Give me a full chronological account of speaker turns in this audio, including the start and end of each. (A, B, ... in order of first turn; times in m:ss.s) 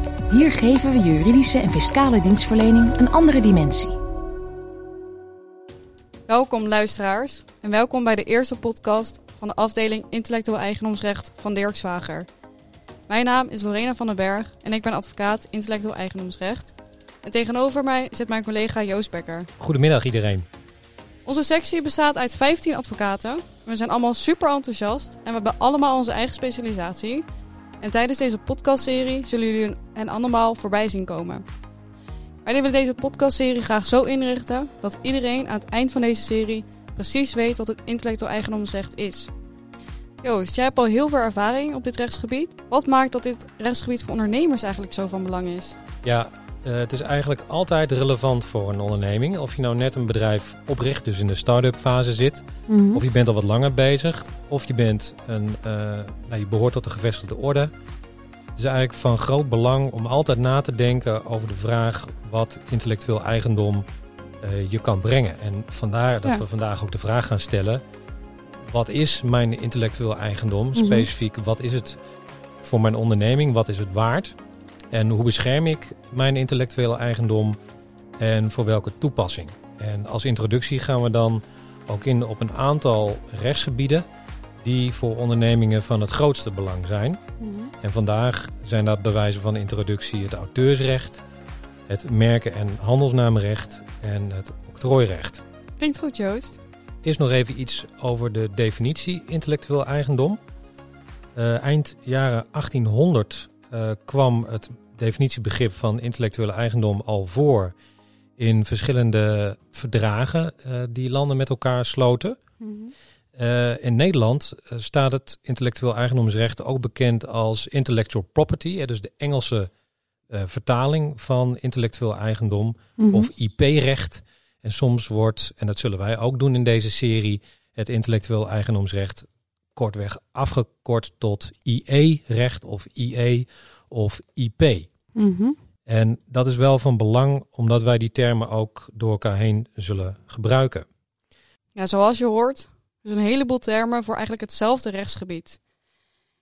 0:00.3-0:04.0 A
0:06.3-0:12.3 B
0:13.1-0:19.5 B
0:19.6-0:20.5 C
0:21.2-0:27.2 B
0:27.8-0:31.4 B
0:32.4-0:39.3 B
0:40.2-0:45.8 B
0:46.0-0:57.7 C
0:52.7-0:53.0 B
0:58.6-1:03.8 C
1:04.4-1:07.8 C
1:08.7-1:12.0 C
1:10.7-1:11.1 B
1:12.6-1:14.4 C
1:14.9-1:17.6 C
1:18.2-1:24.0 C
1:24.6-1:27.2 C
1:27.4-1:27.7 B
1:27.8-1:31.2 C
1:31.9-1:35.4 C
1:35.8-1:36.6 B
1:37.0-1:40.4 C
1:41.3-1:47.7 C
1:48.4-1:52.4 C
1:52.6-1:52.9 B
1:53.3-1:59.7 C
2:00.3-2:14.9 C
2:03.0-2:03.3 B
2:15.2-2:15.6 B
2:15.9-2:20.8 C
2:21.7-2:25.6 B